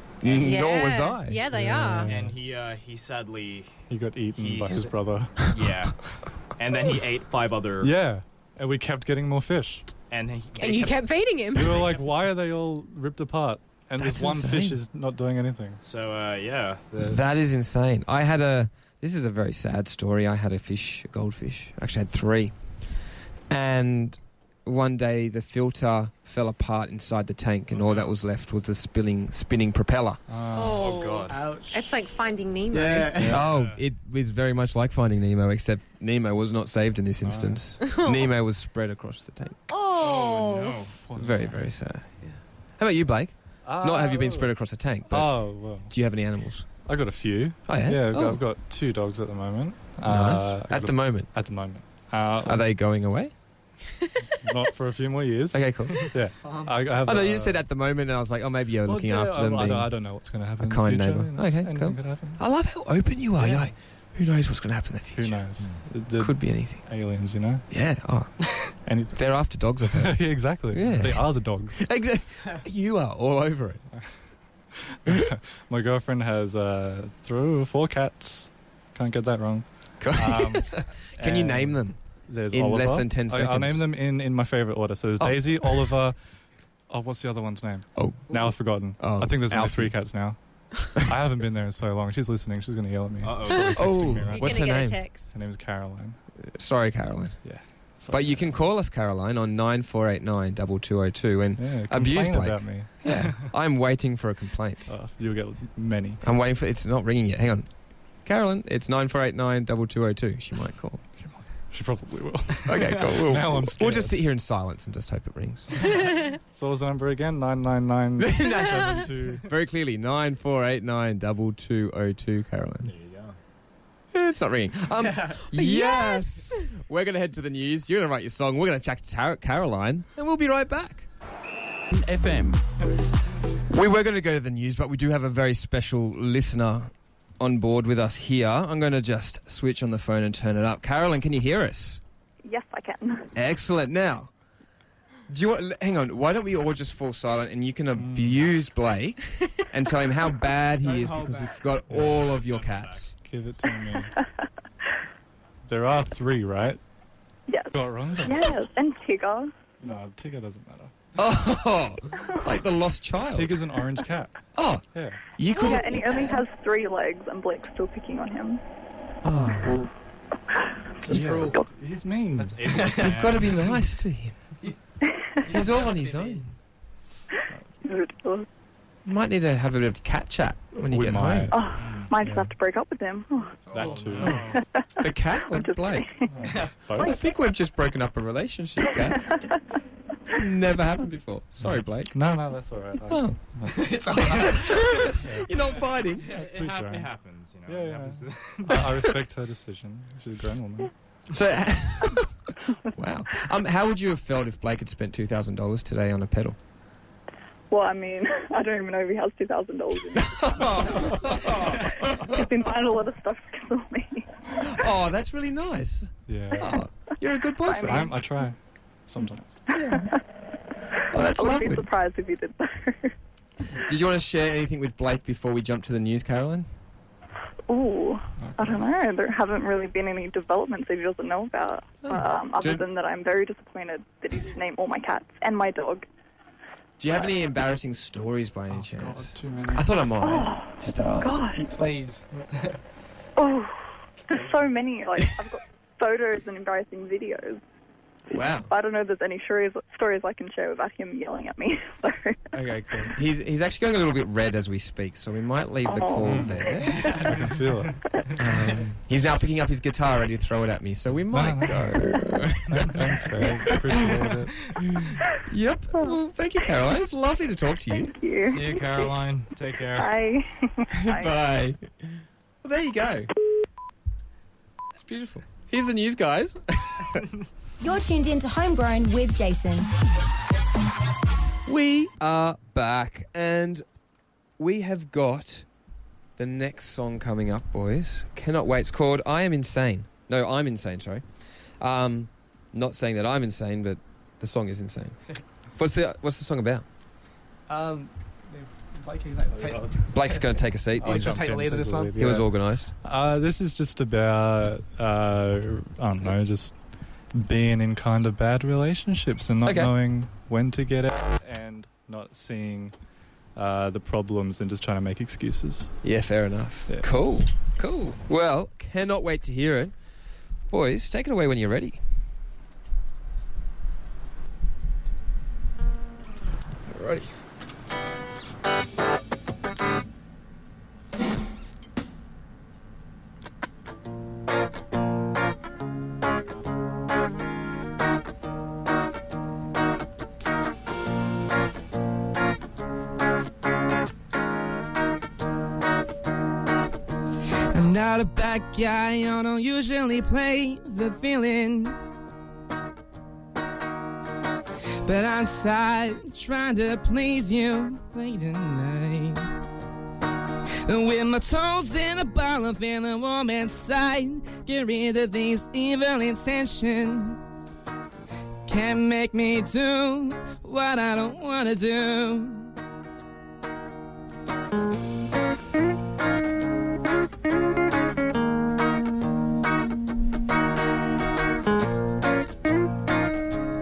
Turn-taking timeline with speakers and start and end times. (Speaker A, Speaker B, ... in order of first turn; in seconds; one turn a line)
Speaker A: 0.2-1.4
Speaker B: 0.2-2.1
Speaker C: 1.4-2.4
Speaker D: 2.1-3.8
Speaker C: 3.9-5.6
Speaker D: 4.3-7.9
Speaker C: 7.8-9.8
Speaker D: 10.1-12.0
Speaker B: 10.6-11.9
Speaker C: 11.5-15.8
Speaker A: 14.0-14.8
Speaker D: 15.8-17.4
Speaker A: 17.0-22.5
Speaker A: 23.5-30.2
Speaker D: 27.7-28.1
Speaker C: 30.3-30.9
Speaker B: 30.5-33.2
Speaker D: 30.8-31.4
Speaker E: 31.3-31.8
Speaker E: 32.7-33.5
Speaker A: 33.2-39.6
Speaker D: 33.3-33.8
Speaker C: 37.2-37.6
Speaker B: 37.8-38.3
Speaker B: 39.7-40.8
Speaker D: 40.0-41.0
Speaker C: 41.1-41.6
Speaker A: 41.1-42.1
Speaker A: 42.8-46.7
Speaker C: 43.6-44.5
Speaker C: 45.1-45.9
Speaker C: 46.8-52.7
Speaker A: 47.6-48.4
Speaker A: 50.0-51.3
Speaker A: 52.4-53.3
Speaker C: 54.4-57.6
Speaker A: 55.5-56.1
Speaker E: 56.4-57.0
Speaker A: 57.0-65.5
Speaker C: 58.9-62.4
Speaker E: 63.4-63.7
Speaker C: 65.1-67.6
Speaker A: 66.2-66.9
Speaker A: 67.7-73.8
Speaker C: 68.8-71.8
Speaker C: 74.8-86.2
Speaker A: 80.0-82.0
Speaker A: 82.5-83.8
Speaker A: 85.2-85.9
Speaker C: 86.9-96.2
Speaker A: 87.9-90.0
Speaker D: 93.2-94.4
Speaker A: 93.8-95.0
Speaker B: 94.3-95.3
Speaker A: 96.5-97.4
Speaker C: 97.4-98.5
Speaker A: 98.1-104.8
Speaker C: 101.6-103.3
Speaker C: 104.9-106.2
Speaker A: 106.2-107.7
Speaker A: 108.2-111.0
Speaker C: 111.2-114.2
Speaker A: 112.6-115.7
Speaker C: 116.5-119.5
Speaker A: 119.5-122.9
Speaker D: 122.8-123.4
Speaker A: 124.1-131.1
Speaker E: 125.0-125.3
Speaker B: 125.5-126.3
Speaker A: 133.7-142.0
Speaker F: 142.4-143.3
Speaker A: 143.3-144.3
Speaker A: 145.3-153.1
Speaker C: 148.0-148.4
Speaker E: 150.8-151.5
Speaker D: 151.9-153.1
Speaker C: 151.9-152.2
Speaker C: 153.2-154.1
Speaker C: 155.6-156.8
Speaker F: 157.5-159.5
Speaker C: 157.7-158.5
Speaker C: 159.8-160.9
Speaker A: 161.2-163.6
Speaker C: 163.3-164.4
Speaker A: 164.6-166.4
Speaker C: 164.9-165.2
Speaker F: 165.5-168.6
Speaker A: 169.2-169.9
Speaker E: 171.1-171.6
Speaker C: 171.1-172.6
Speaker D: 172.4-173.6
Speaker E: 172.7-173.3
Speaker A: 173.0-174.3
Speaker E: 175.4-176.5
Speaker A: 175.5-176.4
Speaker F: 177.8-178.4
Speaker A: 179.0-181.5
Speaker C: 180.9-182.5
Speaker F: 181.5-183.6
Speaker D: 181.8-182.1
Speaker E: 183.7-184.2
Speaker C: 183.7-184.5
Speaker D: 183.8-184.6
Speaker A: 184.2-186.1
Speaker F: 184.5-186.3
Speaker C: 186.3-187.2
Speaker E: 186.4-186.8
Speaker A: 186.9-189.4
Speaker F: 188.9-189.4
Speaker A: 190.3-192.2
Speaker C: 191.6-193.9
Speaker A: 193.1-193.4
Speaker E: 193.7-195.2
Speaker A: 194.2-196.3
Speaker C: 195.1-195.5
Speaker D: 196.3-199.0
Speaker C: 196.4-197.1
Speaker C: 197.7-200.9
Speaker A: 201.3-202.3
Speaker A: 202.9-206.6
Speaker F: 207.7-211.2
Speaker A: 210.2-212.4
Speaker F: 212.0-214.3
Speaker A: 214.5-218.2
Speaker C: 216.3-216.8
Speaker F: 217.6-218.1
Speaker C: 217.8-219.6
Speaker F: 219.7-220.2
Speaker A: 219.7-220.1
Speaker A: 221.1-221.9
Speaker F: 221.2-223.1
Speaker A: 223.8-226.7
Speaker F: 227.7-236.1
Speaker C: 228.4-228.8
Speaker A: 232.0-232.8
Speaker A: 237.0-241.4
Speaker C: 238.7-239.9
Speaker F: 240.2-241.7
Speaker E: 241.7-242.8
Speaker F: 243.4-247.6
Speaker A: 248.3-248.7
Speaker F: 248.3-252.5
Speaker A: 252.5-257.3
Speaker F: 255.8-257.3
Speaker C: 256.2-256.6
Speaker E: 256.9-257.2
Speaker C: 257.2-258.0
Speaker A: 258.4-264.2
Speaker C: 261.3-262.0
Speaker C: 262.7-264.7
Speaker A: 264.8-268.1
Speaker F: 265.9-266.2
Speaker F: 267.9-269.1
Speaker D: 268.4-270.1
Speaker F: 269.9-271.4
Speaker A: 270.9-273.3
Speaker A: 274.9-277.2
Speaker G: 277.8-279.9
Speaker A: 281.6-283.8
Speaker A: 284.6-285.7
Speaker A: 286.4-291.2
Speaker A: 291.8-295.2
Speaker A: 295.8-296.8
Speaker E: 297.7-300.4
Speaker C: 299.6-300.0
Speaker A: 300.1-301.5
Speaker C: 301.0-302.5
Speaker E: 301.0-302.2
Speaker A: 302.1-302.9
Speaker C: 303.0-306.8
Speaker C: 307.3-312.9
Speaker A: 309.6-309.9
Speaker C: 313.5-315.9
Speaker A: 316.0-319.9
Speaker A: 320.7-322.0
Speaker H: 347.7-351.9
Speaker H: 355.0-359.5
Speaker H: 360.8-367.5
Speaker H: 368.7-372.7